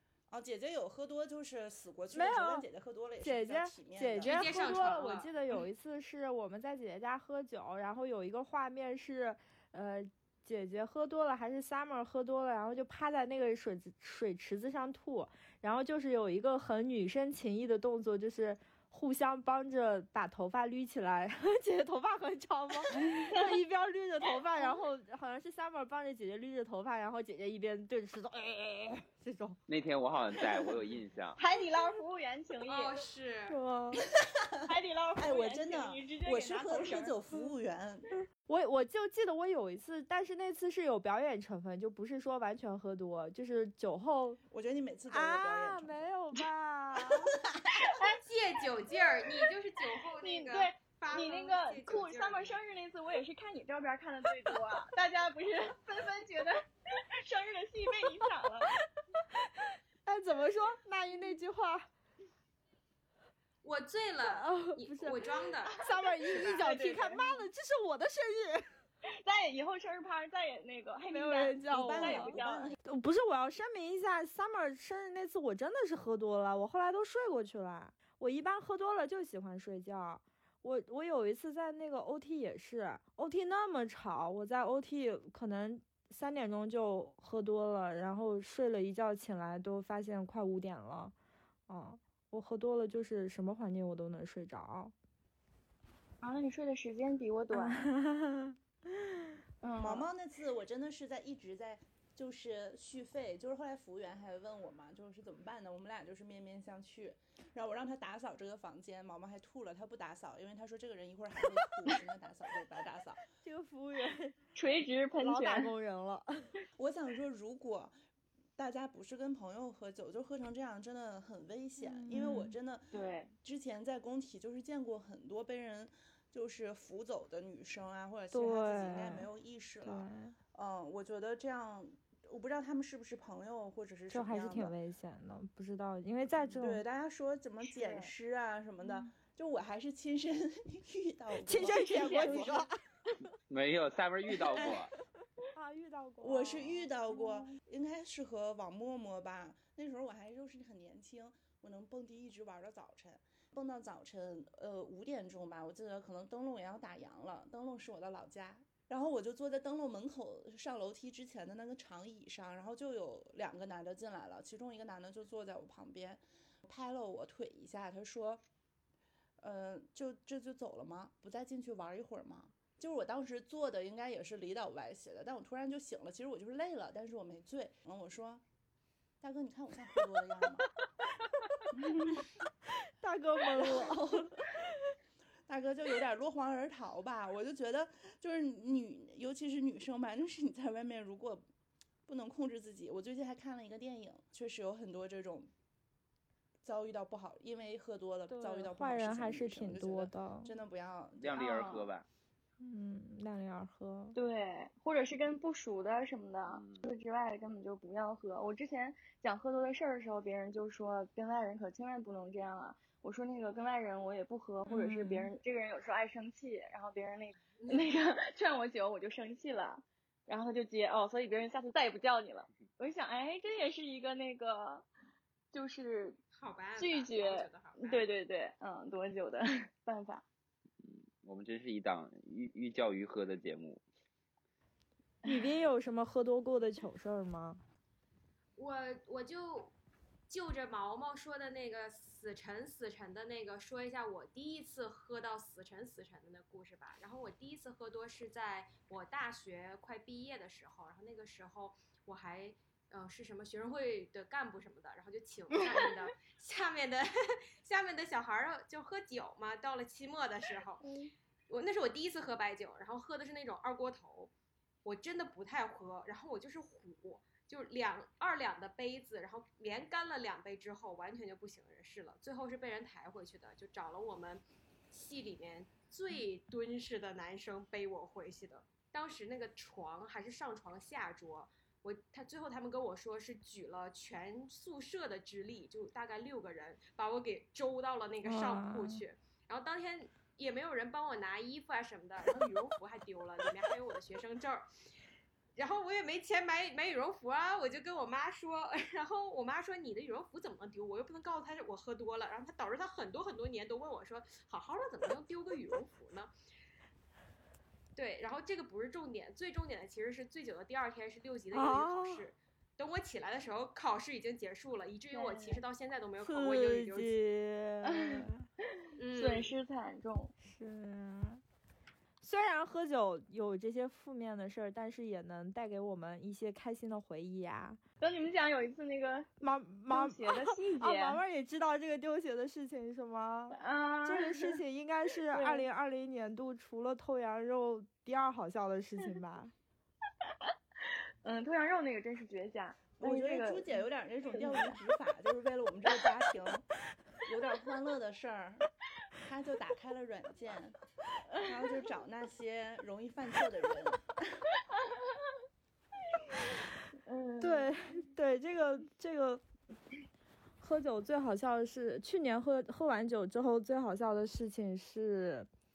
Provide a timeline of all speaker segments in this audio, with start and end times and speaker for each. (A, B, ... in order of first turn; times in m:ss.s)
0:00.3-0:04.4 A
0:02.1-0:02.6 B
0:03.2-0:29.6 B
0:04.2-0:05.3 C
0:22.9-0:23.4 D
0:29.7-0:31.4 E
0:31.4-0:33.0 D
0:32.6-0:33.6 C
0:33.5-0:34.0 B
0:34.7-0:37.2 D
0:34.7-0:38.1 A
0:38.5-0:44.4 B
0:44.5-0:46.1 A
0:45.1-0:47.4 B
0:47.5-0:47.9 A
0:47.7-0:48.2 D
0:48.2-0:52.6 C
0:50.2-0:58.7 D
1:00.0-1:01.9 B
1:03.6-1:06.8 C
1:04.2-1:08.7 B
1:05.6-1:07.4 D
1:09.2-1:12.8 D
1:11.1-1:31.1 B
1:11.7-1:12.8 A
1:31.7-1:34.9 B
1:36.2-1:37.9 D
1:37.5-1:39.2 B
1:39.6-1:40.1 D
1:39.8-1:53.2 A
1:53.4-1:54.4 B
1:54.5-1:55.7 D
1:55.2-1:56.3 B
1:56.8-1:57.9 A
1:58.6-2:14.7 A
2:01.8-2:02.5 B
2:02.9-2:03.3 D
2:08.3-2:09.3 B
2:09.8-2:10.3 B
2:14.1-2:16.8 B
2:16.6-2:22.7 A
2:17.6-2:18.1 D
2:21.4-2:22.7 B
2:21.6-2:22.5 D
2:23.5-2:24.9 E
2:24.5-2:24.8 A
2:25.5-2:26.9 B
2:26.2-2:48.4 A
2:27.1-2:27.5 D
2:49.4-2:58.4 A
2:59.2-3:00.6 A
3:01.8-3:02.2 A
3:03.0-3:04.5 B
3:05.5-3:11.4 A
3:12.0-3:15.5 A
3:16.6-3:21.4 A
3:18.3-3:20.5 B
3:21.2-3:22.0 E
3:21.3-3:21.9 D
3:22.6-3:24.2 B
3:24.1-3:44.9 D
3:26.5-3:26.8 E
3:34.7-3:35.3 B
3:37.6-3:38.0 C
3:45.5-3:46.2 D
3:46.3-3:48.1 C
3:46.8-3:50.2 D
3:50.8-3:53.8 E
3:55.2-3:57.6 B
3:58.6-3:59.7 C
4:00.3-4:17.1 C
4:15.5-4:16.1 D
4:17.6-4:20.8 C
4:20.8-4:21.1 D
4:21.5-4:24.3 C
4:24.8-4:54.6 C
4:48.2-4:49.0 B
4:55.6-5:06.3 C
5:07.9-5:17.2 C
5:11.5-5:12.3 B
5:15.1-5:15.6 D
5:16.2-5:18.5 B
5:17.8-5:20.3 D
5:19.0-5:19.5 C
5:20.4-5:21.4 B
5:22.2-5:27.8 B
5:28.0-5:29.3 D
5:29.4-5:39.5 B
5:29.9-5:31.2 D
5:33.5-5:34.6 D
5:35.3-5:35.7 D
5:40.2-5:44.8 D
5:43.0-5:46.6 A
5:47.2-5:50.8 A
5:51.3-5:51.6 D
5:51.4-5:54.2 A
5:54.7-5:55.3 D
5:57.0-5:57.7 D
5:57.4-5:59.4 B
6:00.6-6:05.5 B